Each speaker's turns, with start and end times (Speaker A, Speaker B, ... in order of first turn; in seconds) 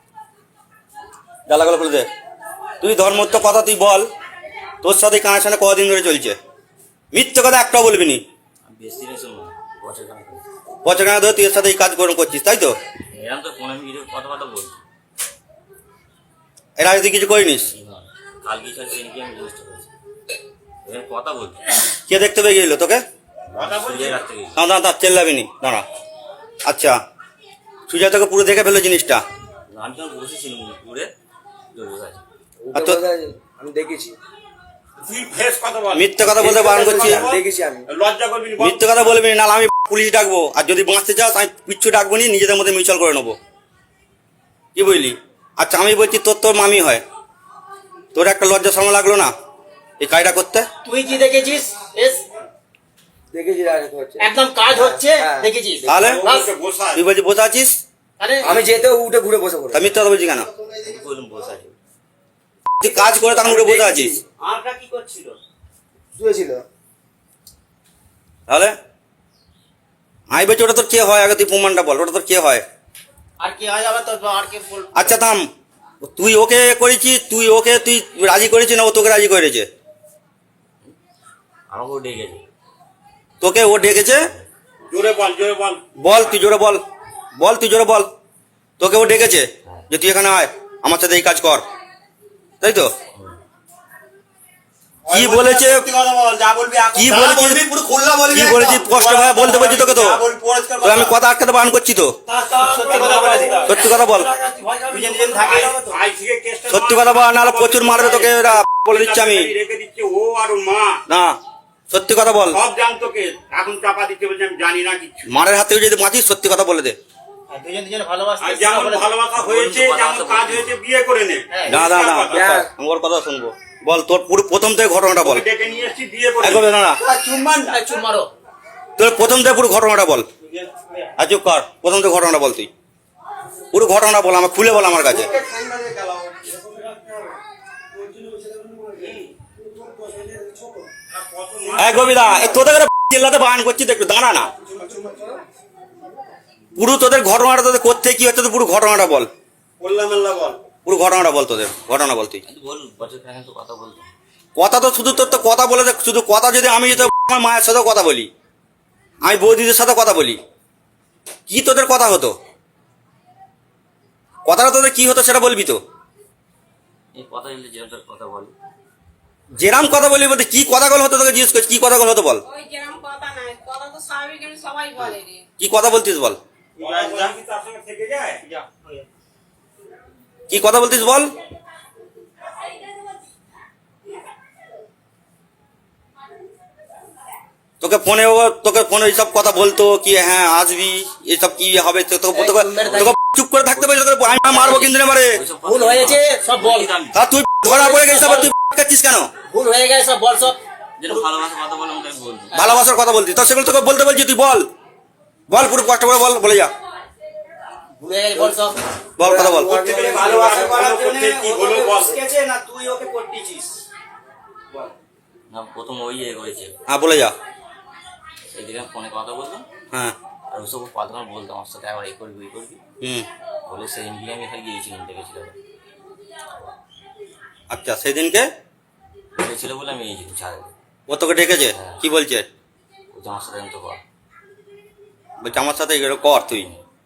Speaker A: 1.5-2.1, 2.8-4.1, 4.8-6.4, 7.1-8.2, 10.8-12.7, 16.8-17.7, 22.1-23.0, 24.5-25.8, 26.6-27.0, 27.9-29.2, 32.7-33.0, 35.9-37.3, 38.6-43.4, 44.8-47.0, 48.1-49.3, 50.0-50.7, 55.9-56.3, 56.9-57.8, 59.7-60.5, 62.8-64.2, 68.5-68.8, 70.3-72.6, 74.9-75.4, 76.0-79.7, 83.4-84.2, 86.0-86.8, 87.4-88.1, 88.8-91.7, 92.6-92.9, 95.1-96.0, 96.9-97.7, 98.2-100.3, 100.8-102.2, 103.6-104.3, 106.7-109.5, 111.1-111.4, 111.9-112.6, 115.3-117.0, 121.7-125.4, 126.4-127.0, 129.0-130.3, 131.2-132.7, 133.7-135.4, 141.8-144.5, 146.8-149.3, 150.8-152.4, 154.6-158.3, 159.2-160.4, 161.5-162.3, 164.4-165.8, 169.6-172.4, 175.0-176.4, 180.5-181.3, 187.8-195.3, 197.1-199.3, 202.5-204.7, 205.5-206.7, 209.2-209.9, 216.9-217.3, 223.0-223.3, 227.7-228.5, 231.1-232.5, 235.4-236.7
Speaker B: 8.7-10.4, 13.1-14.8, 17.7-19.9, 20.9-21.6, 23.5-24.6, 29.7-31.1, 31.7-32.2, 60.8-61.8, 81.7-82.5, 119.3-120.8, 152.4-154.1, 167.1-168.5, 193.8-197.2, 201.0-202.7, 215.5-216.8, 218.5-219.7, 220.5-222.8, 223.7-225.6, 229.4-230.7, 231.8-232.0, 233.1-234.0, 236.4-236.8
Speaker C: 23.6-24.2, 35.0-39.1, 56.0-57.1, 84.9-85.8, 95.1-101.2, 102.5-104.0, 105.0-111.0, 112.5-115.4, 118.4-122.7, 125.2-127.8, 139.0-139.3, 141.2-142.6, 149.8-150.6, 176.8-178.6, 209.7-212.3
Speaker D: 32.6-34.2, 36.6-37.9, 53.3-55.5, 58.4-59.9, 63.5-64.2, 66.2-66.7, 122.3-122.7, 135.5-136.1, 138.2-138.9, 209.2-210.7
Speaker E: 50.9-52.2, 54.2-56.5, 58.2-58.5, 63.5-63.9, 64.5-65.2, 73.4-75.1, 102.5-103.9, 104.5-105.9, 117.5-119.2, 121.5-121.8, 127.2-128.3, 176.8-177.3, 192.3-193.2, 195.6-196.9, 197.6-198.5, 199.5-200.6, 208.0-208.8, 210.2-213.5
Speaker F: 172.5-175.4